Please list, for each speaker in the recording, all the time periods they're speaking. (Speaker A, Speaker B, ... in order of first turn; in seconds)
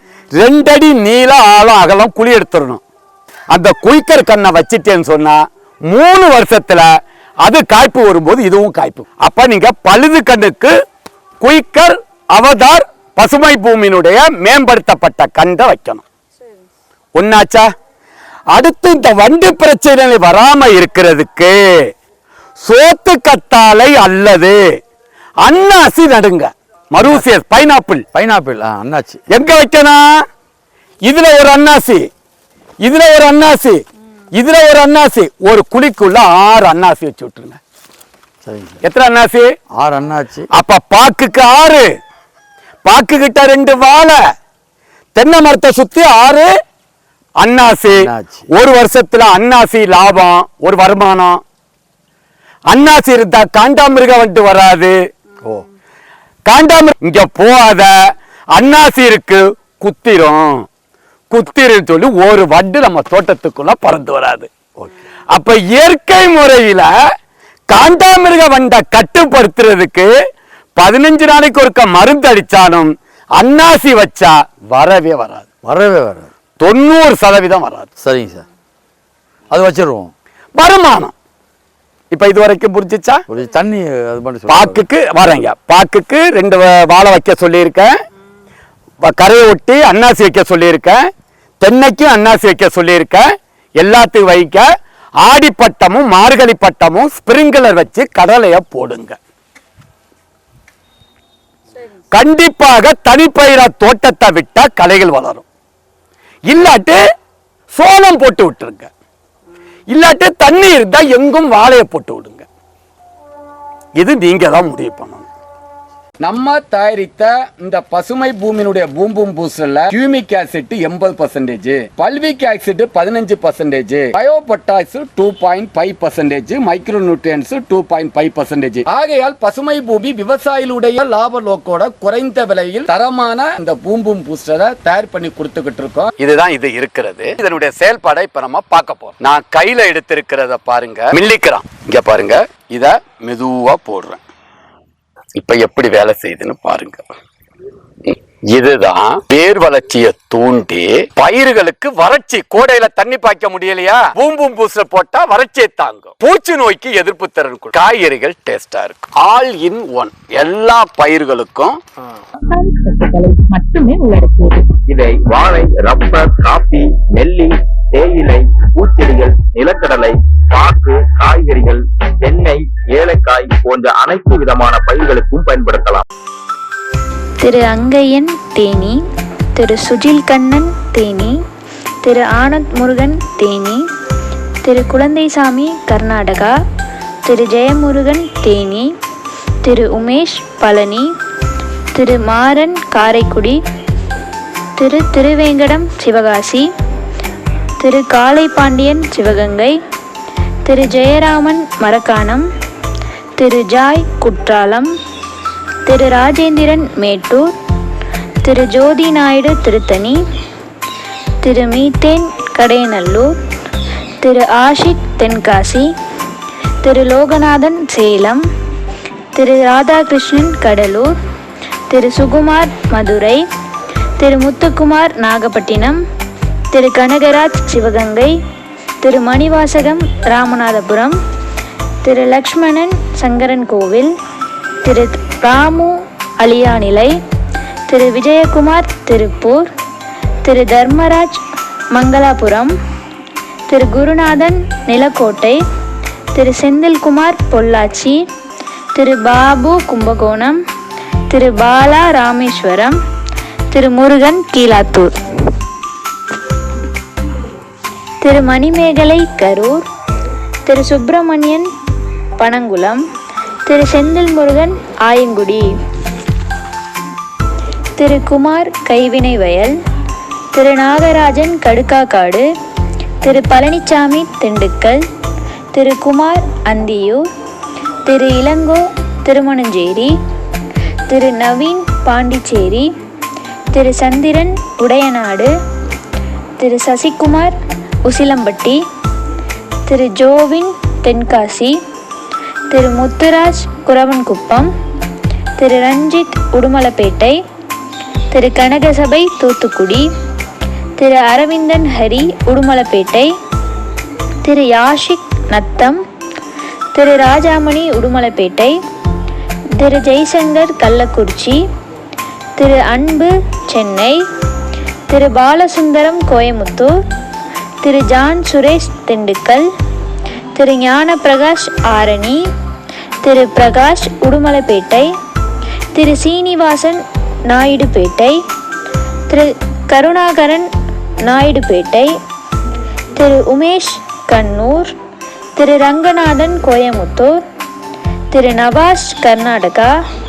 Speaker A: 0.3-2.8, 3.5-6.9, 7.4-10.7, 11.4-16.0, 17.1-17.7, 18.5-21.6, 22.6-24.6, 25.4-28.1, 29.3-30.1, 31.0-32.1, 32.8-33.8, 34.4-37.6, 38.8-39.5, 40.5-41.9, 42.8-44.2, 45.2-46.5, 47.4-48.0, 48.5-51.4, 52.7-55.0, 56.5-57.9, 58.5-60.7, 61.3-64.5, 65.3-66.9, 67.7-70.1, 70.8-75.5, 76.6-77.9, 80.5-81.1, 82.1-83.2, 84.5-87.9, 89.0-91.0, 91.6-93.3, 93.8-94.7, 95.2-99.2, 102.1-105.5, 106.5-107.0, 107.7-108.9, 109.9-112.5, 114.0-115.3, 116.2-144.2, 145.4-147.1, 148.1-161.8
Speaker B: 28.1-29.2, 38.4-38.8, 39.8-40.5, 47.9-48.5, 75.7-76.3, 78.0-78.5, 79.5-80.1, 83.3-84.9
Speaker C: 162.5-164.8
Speaker D: 164.9-176.1
Speaker E: 177.4-179.0, 179.6-181.4, 182.0-183.8, 184.6-186.6, 187.2-188.9, 189.6-191.1, 191.9-193.6, 194.8-196.7, 197.8-199.8, 200.7-202.5, 203.4-204.9, 205.8-207.5, 208.4-210.2, 211.4-213.3, 214.2-215.9, 216.8-218.4, 219.3-221.1, 221.9-223.4, 224.2-226.0, 226.7-228.4, 229.0-231.2, 232.0-234.1, 234.8-237.2, 237.9-239.7, 240.4-241.4, 241.9-242.7, 243.7-245.6, 246.3-248.2, 248.9-250.6, 251.3-253.0, 253.7-255.1, 258.2-259.9, 260.7-261.7, 262.4-263.0, 263.6-265.7, 268.0-269.8, 270.5-272.5, 273.2-275.0, 275.7-277.2, 278.1-280.1, 281.1-282.9, 283.7-285.5, 286.6-287.6, 288.1-288.8, 289.9-291.8, 292.7-294.7, 295.6-297.4, 298.3-300.1, 301.0-303.3, 304.4-306.0, 306.9-308.8, 309.8-311.6, 312.6-314.2, 315.1-316.9, 317.8-319.7, 320.6-322.5, 323.2-325.1, 325.9-328.4, 329.3-330.7, 331.2-332.1, 333.1-334.9, 335.6-337.4, 338.3-339.9